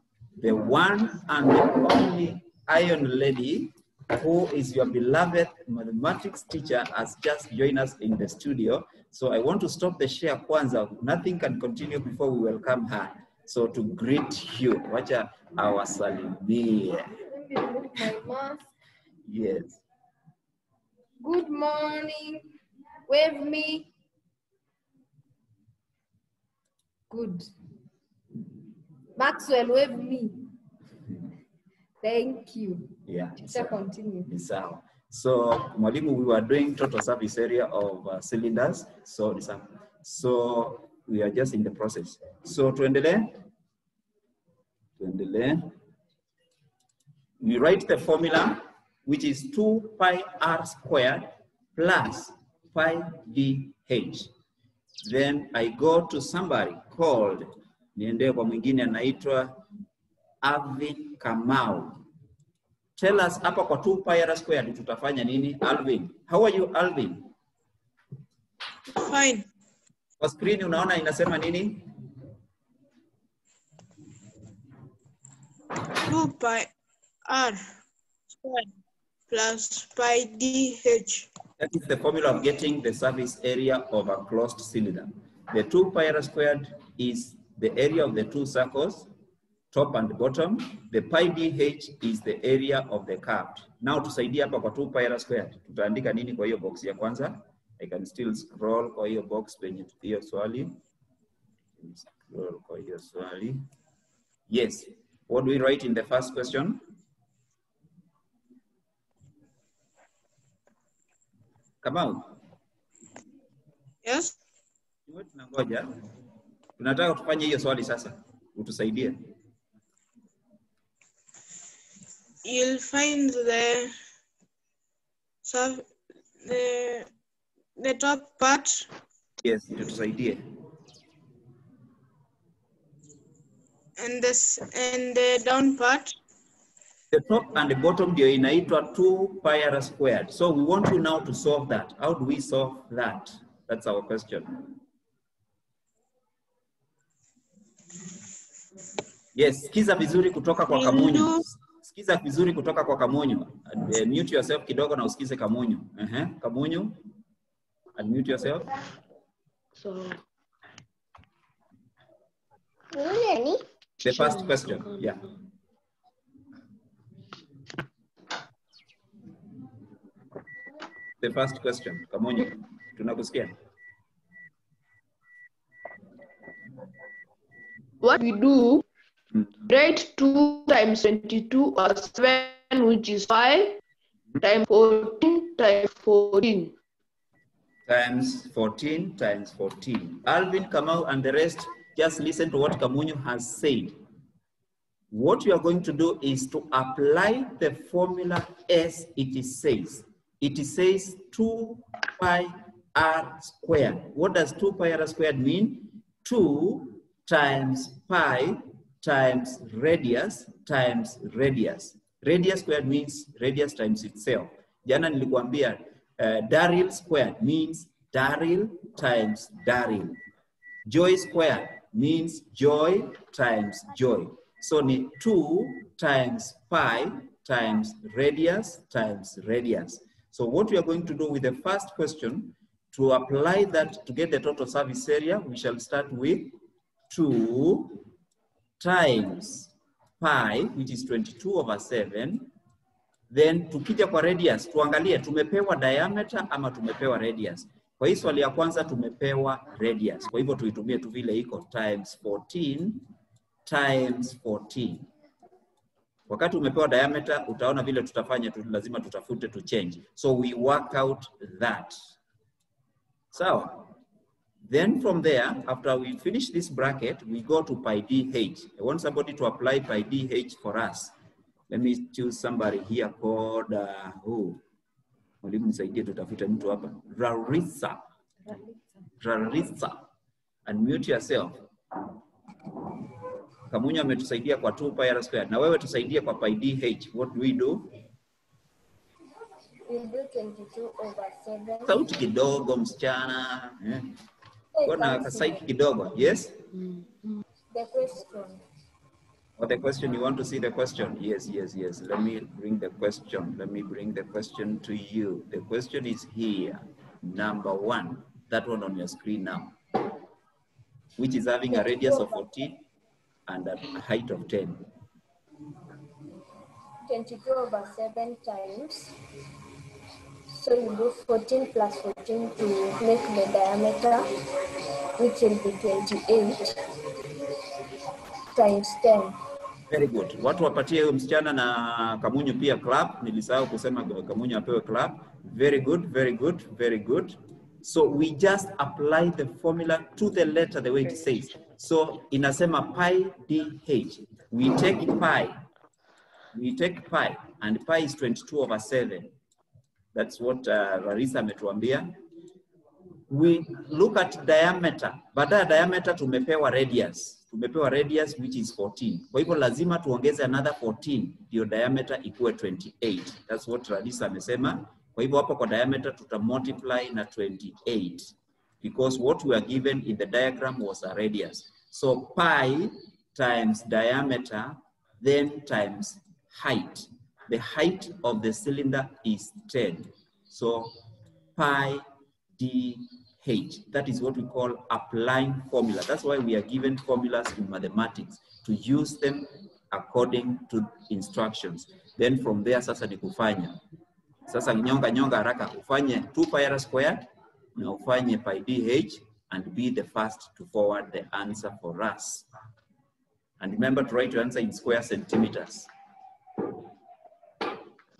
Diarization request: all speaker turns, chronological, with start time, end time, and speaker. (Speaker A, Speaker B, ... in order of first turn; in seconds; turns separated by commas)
Speaker A: 0.4-17.1, Speaker B: 17.3-18.7, Speaker A: 19.2-19.8, Speaker B: 21.2-22.4, Speaker B: 23.1-23.9, Speaker B: 27.1-27.5, Speaker B: 29.2-30.5, Speaker B: 32.0-34.3, Speaker A: 33.0-43.4, Speaker A: 45.0-45.7, Speaker A: 47.4-54.3, Speaker A: 55.0-59.5, Speaker A: 60.4-62.0, Speaker A: 63.0-67.3, Speaker C: 68.9-69.5, Speaker A: 70.2-71.8, Speaker C: 76.0-76.7, Speaker C: 77.2-77.6, Speaker C: 78.4-78.7, Speaker C: 79.3-81.3, Speaker A: 81.6-89.1, Speaker A: 89.7-100.8, Speaker A: 101.8-103.7, Speaker A: 104.5-106.8, Speaker A: 111.8-112.3, Speaker C: 114.0-114.3, Speaker A: 115.1-115.9, Speaker A: 116.8-119.2, Speaker C: 122.4-123.9, Speaker C: 125.4-125.8, Speaker C: 126.4-127.1, Speaker C: 127.8-128.9, Speaker A: 129.4-130.4, Speaker C: 134.0-136.2, Speaker A: 137.1-144.6, Speaker A: 149.3-157.0, Speaker C: 150.7-151.4, Speaker A: 158.0-158.7, Speaker A: 164.0-165.2, Speaker A: 171.2-173.5, Speaker D: 178.0-178.8, Speaker D: 179.6-183.8, Speaker D: 184.4-186.7, Speaker A: 187.9-194.0, Speaker A: 195.1-220.2, Speaker A: 220.8-236.6, Speaker A: 237.1-238.0, Speaker A: 238.8-242.5, Speaker A: 243.3-253.1, Speaker A: 253.7-255.1, Speaker A: 256.3-262.0, Speaker A: 263.3-263.9, Speaker A: 264.6-271.1, Speaker A: 271.7-274.6, Speaker A: 275.4-278.0, Speaker A: 279.2-280.1, Speaker A: 280.6-281.6, Speaker A: 283.7-287.9, Speaker E: 289.9-292.0, Speaker A: 291.8-294.1, Speaker E: 294.7-295.6, Speaker A: 294.8-296.6, Speaker E: 297.7-298.6, Speaker A: 299.6-309.8, Speaker A: 311.2-312.8, Speaker E: 311.7-312.3, Speaker A: 313.5-314.8, Speaker E: 317.1-319.1, Speaker E: 320.5-324.3, Speaker E: 325.2-326.6, Speaker E: 328.5-329.3, Speaker A: 329.9-345.6, Speaker A: 346.5-349.3, Speaker A: 350.1-352.1, Speaker A: 353.3-381.0, Speaker A: 381.6-382.0, Speaker A: 382.6-393.8, Speaker A: 394.5-402.5, Speaker A: 403.6-405.9